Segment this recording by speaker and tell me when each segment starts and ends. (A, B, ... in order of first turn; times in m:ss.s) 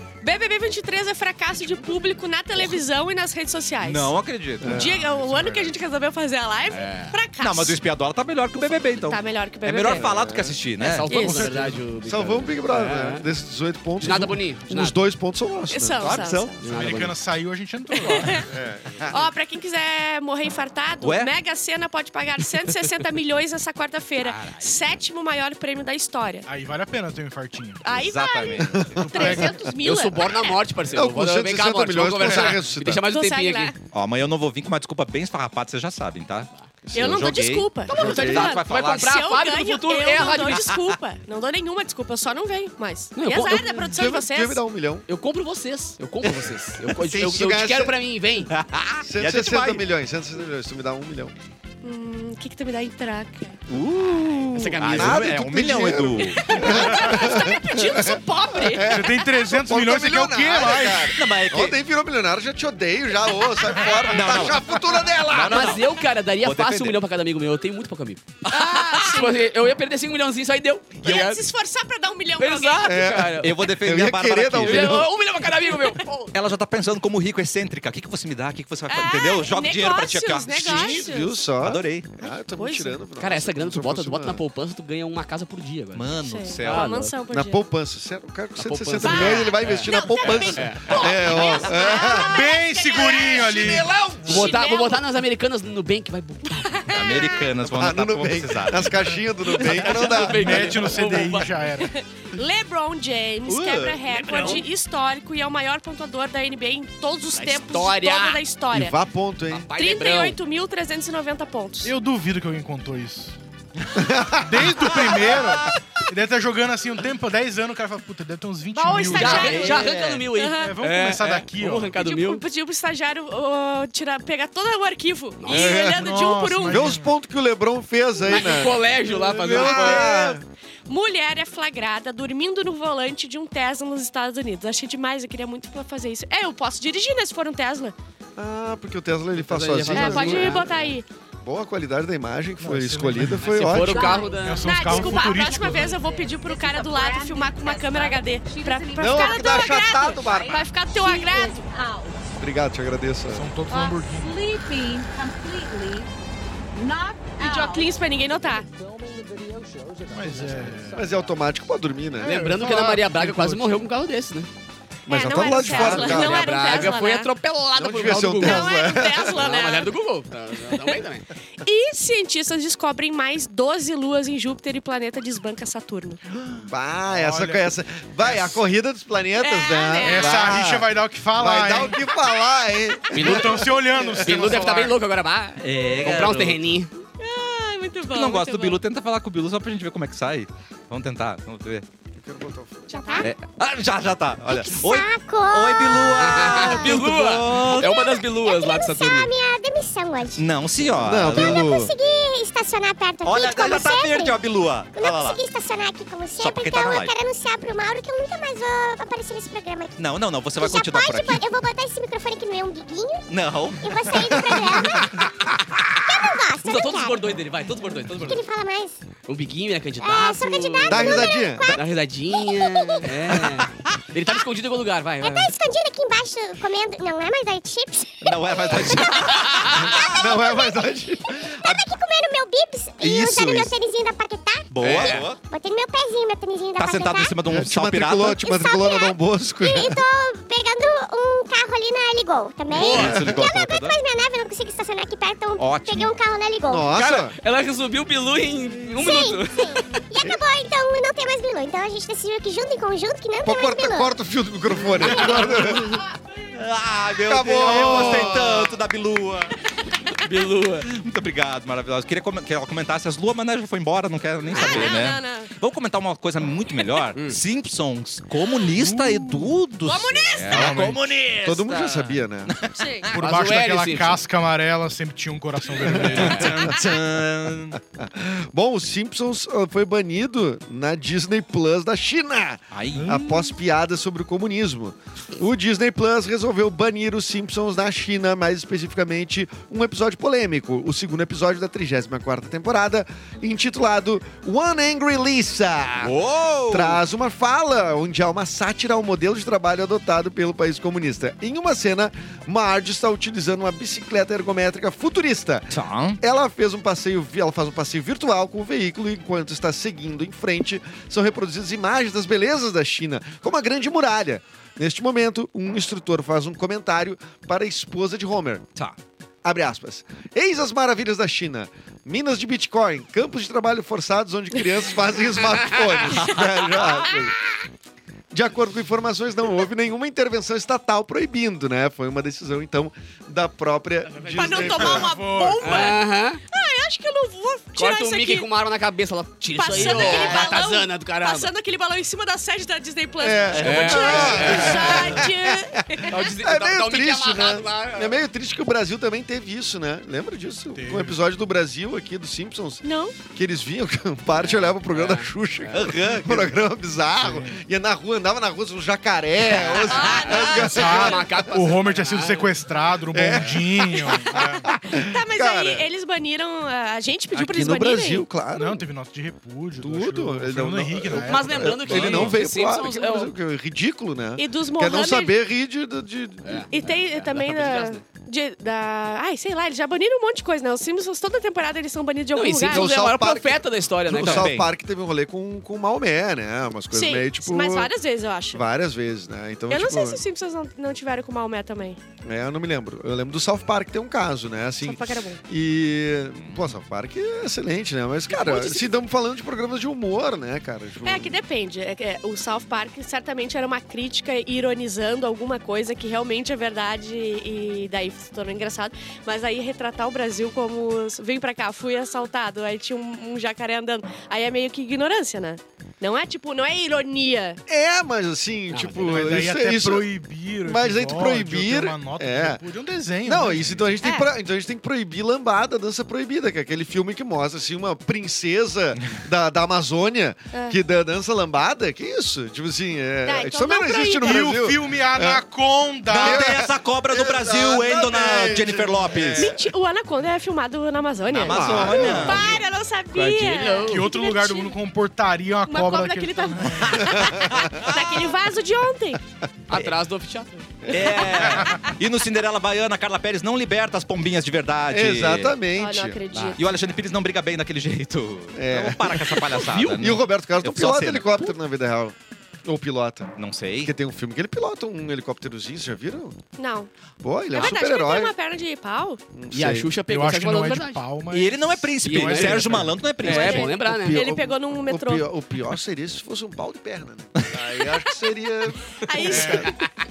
0:00.2-0:04.1 A
0:03.8-0:04.9 B
0:04.6-0:05.7 C
0:04.6-0:07.8 A
0:06.7-0:07.2 D
0:07.4-0:11.4 B
0:08.6-0:10.1 A
0:09.9-0:10.6 C
0:10.8-0:13.2 D
0:11.1-0:11.5 A
0:11.4-0:11.8 E
0:12.0-0:16.3 C
0:14.0-0:15.0 D
0:15.7-0:16.6 A
0:16.0-0:16.5 B
0:16.6-0:17.2 D
0:16.6-0:18.5 E
0:17.9-0:18.5 A
0:18.5-0:19.3 C
0:19.1-0:26.4 A
0:21.0-0:21.3 B
0:24.2-0:24.8 D
0:26.4-0:27.8 E
0:27.8-0:30.6 A
0:27.9-0:29.4 B
0:28.6-0:29.4 C
0:28.9-0:29.6 E
0:29.8-0:33.7 D
0:30.9-0:33.0 C
0:33.0-0:33.8 A
0:33.9-0:39.1 B
0:36.8-0:37.3 C
0:36.9-0:44.6 A
0:37.8-0:40.7 D
0:37.9-0:38.5 C
0:43.1-0:43.8 D
0:43.8-0:45.0 C
0:45.1-0:48.5 D
0:47.1-0:47.9 C
0:48.5-0:49.9 B
0:49.0-0:51.3 C
0:51.8-0:53.6 A
0:53.7-0:57.3 B
0:54.5-0:55.3 D
0:54.8-1:05.8 C
0:56.2-0:59.1 A
0:58.8-1:01.1 E
1:01.1-1:01.8 B
1:04.0-1:07.0 B
1:05.3-1:11.4 D
1:08.5-1:09.4 A
1:11.0-1:13.0 A
1:12.4-1:13.6 D
1:12.8-1:15.1 C
1:13.4-1:15.1 B
1:14.6-1:16.3 D
1:16.3-1:21.1 B
1:18.9-1:21.4 A
1:20.6-1:24.4 C
1:21.6-1:22.1 B
1:22.2-1:23.0 A
1:23.2-1:27.1 D
1:25.9-1:26.9 B
1:26.2-1:27.6 A
1:27.3-1:32.5 C
1:28.6-1:31.7 D
1:29.0-1:33.6 A
1:32.2-1:34.0 E
1:33.3-1:34.5 C
1:34.2-1:36.9 D
1:34.2-1:35.0 A
1:36.6-1:37.4 A
1:36.9-1:39.0 B
1:37.6-1:40.8 C
1:39.6-1:41.5 D
1:40.0-1:41.9 E
1:41.8-1:49.0 A
1:43.5-1:44.6 B
1:44.1-1:44.6 D
1:47.3-1:48.4 D
1:48.7-1:49.7 C
1:49.5-1:50.4 D
1:49.8-1:51.9 A
1:51.8-1:53.4 E
1:53.9-1:55.1 C
1:54.4-1:59.8 E
1:54.9-1:55.7 B
1:58.7-2:00.7 A
1:59.1-2:02.4 D
1:59.6-2:00.2 B
2:00.6-2:02.0 E
2:02.0-2:06.9 A
2:05.4-2:05.7 D
2:05.5-2:06.1 C
2:05.7-2:07.1 E
2:06.7-2:10.4 C
2:08.2-2:10.1 D
2:09.4-2:10.4 B
2:09.6-2:17.9 A
2:18.4-2:20.7 C
2:19.4-2:20.9 D
2:19.9-2:21.0 A
2:21.4-2:24.2 C
2:22.6-2:23.7 E
2:23.4-2:24.8 D
2:23.8-2:32.3 F
2:23.9-2:31.7 A
2:24.4-2:26.0 E
2:29.0-2:30.6 C
2:32.4-2:33.5 C
2:33.3-2:34.4 E
2:33.7-2:36.1 F
2:36.7-2:41.8 F
2:37.4-2:38.7 A
2:40.1-2:41.0 E
2:40.9-2:42.4 C
2:42.2-2:44.5 D
2:42.2-2:43.8 E
2:45.1-2:46.5 C
2:45.1-2:47.3 A
2:45.7-2:48.7 D
2:45.7-2:46.0 B
2:47.8-2:49.5 C
2:48.3-2:49.9 A
2:49.3-2:51.3 D
2:51.6-2:56.2 A
2:56.6-3:04.6 C
2:57.1-2:57.7 E
2:58.2-2:58.6 E
2:59.4-3:00.4 A
3:00.0-3:02.0 E
3:03.1-3:03.6 D
3:03.1-3:05.0 E
3:04.2-3:06.9 D
3:05.6-3:06.6 B
3:07.2-3:08.8 A
3:08.1-3:11.8 B
3:12.2-3:13.2 C
3:12.9-3:13.2 A
3:12.9-3:13.3 G
3:13.2-3:18.0 B
3:14.4-3:17.0 G
3:16.2-3:19.3 D
3:17.7-3:20.5 G
3:20.4-3:21.6 B
3:20.9-3:21.9 C
3:21.3-3:24.4 G
3:23.2-3:25.4 B
3:24.9-3:29.9 G
3:26.4-3:27.1 B
3:30.0-3:31.5 B
3:30.5-3:35.2 G
3:33.3-3:35.3 B
3:36.0-3:37.3 G
3:36.6-3:38.4 D
3:38.1-3:39.0 G
3:39.3-3:45.5 D
3:40.0-3:43.2 G
3:40.8-3:41.8 C
3:45.2-3:57.4 G
3:48.2-3:50.2 B
3:49.5-3:49.8 D
3:49.8-3:51.8 C
3:53.0-3:53.7 B
3:54.7-3:55.4 B
3:54.8-3:55.3 D
3:56.8-3:58.4 B
3:57.4-4:00.0 C
3:58.4-4:06.9 G
4:02.7-4:03.2 D
4:02.8-4:04.0 B
4:03.0-4:03.4 C
4:05.6-4:06.1 B
4:06.6-4:07.3 C
4:06.9-4:09.9 D
4:08.9-4:14.1 G
4:13.4-4:16.0 C
4:15.2-4:15.5 B
4:16.5-4:19.6 B
4:17.2-4:18.8 C
4:17.7-4:18.3 E
4:20.2-4:20.9 D
4:20.8-4:33.2 B
4:24.5-4:25.5 A
4:27.1-4:27.4 D
4:28.7-4:29.5 E
4:29.8-4:30.7 A
4:30.5-4:31.0 E
4:31.4-4:32.5 C
4:32.7-4:33.1 A
4:33.1-4:36.8 E
4:33.1-4:34.2 D
4:35.9-4:36.3 C
4:35.9-4:36.5 D
4:36.1-4:37.8 B
4:37.7-4:56.2 C
4:42.7-4:43.5 B
4:43.0-4:43.2 E
4:56.0-4:57.0 B
4:56.7-5:18.6 C
5:05.7-5:06.2 B
5:19.4-5:27.3 C
5:26.1-5:26.9 B
5:28.3-5:35.1 C
5:34.2-5:35.9 E
5:34.3-5:38.5 A
5:35.6-5:36.4 D
5:37.8-5:41.5 D
5:39.5-5:46.1 A
5:39.8-5:40.4 C
5:43.2-6:01.4 C
5:43.6-5:44.5 B
5:43.6-5:45.2 D
5:46.1-5:48.2 D
5:50.7-5:51.2 E
5:52.8-5:53.2 A
5:54.3-5:56.0 D
5:55.7-5:56.5 B
5:57.2-5:57.6 E
5:59.4-6:02.6 D
5:59.8-6:01.0 A
6:00.5-6:04.7 E
6:03.1-6:05.9 C
6:04.9-6:08.3 A
6:07.3-6:08.8 C
6:08.5-6:12.3 E
6:09.8-6:16.7 C
6:11.2-6:13.3 D
6:11.9-6:12.3 B
6:14.4-6:15.3 A
6:16.4-6:18.0 D
6:16.7-6:22.9 A
6:22.3-6:24.5 D
6:22.7-6:27.9 C
6:24.1-6:24.7 B
6:26.9-6:28.6 A
6:28.5-6:30.2 C
6:29.7-6:32.0 A
6:32.2-6:41.4 C
6:34.8-6:35.4 A
6:36.4-6:36.7 B
6:38.3-6:39.0 A
6:41.0-6:57.6 A
6:57.7-7:00.1 C
6:58.7-6:59.3 D
6:59.1-7:03.8 E
7:00.6-7:02.6 C
7:03.2-7:15.4 C
7:04.0-7:04.3 A
7:10.5-7:10.8 A
7:13.2-7:14.4 A
7:14.2-7:16.5 E
7:16.1-7:19.5 B
7:16.1-7:19.6 C
7:19.4-7:24.7 A
7:21.3-7:22.6 C
7:21.3-7:22.6 B
7:23.1-7:24.1 D
7:23.8-7:27.0 E
7:25.7-7:29.2 A
7:27.2-7:27.6 C
7:27.5-7:28.3 B
7:29.7-7:30.7 D
7:30.8-7:31.7 C
7:30.9-7:35.5 B
7:34.9-7:36.2 C
7:35.8-7:36.7 A
7:36.3-7:36.6 D
7:36.6-7:41.5 B
7:38.5-7:46.4 C
7:39.7-7:40.0 D
7:43.4-7:43.9 B
7:46.6-7:46.9 A
7:47.2-7:48.3 C
7:47.5-7:49.2 A
7:49.3-7:49.9 C
7:49.5-7:51.0 D
7:50.0-7:53.0 E
7:51.3-7:53.7 B
7:52.0-7:54.2 D
7:53.2-7:55.3 A
7:53.8-7:59.7 C
7:59.0-7:59.8 A
7:59.3-7:59.7 D
7:59.3-7:59.6 E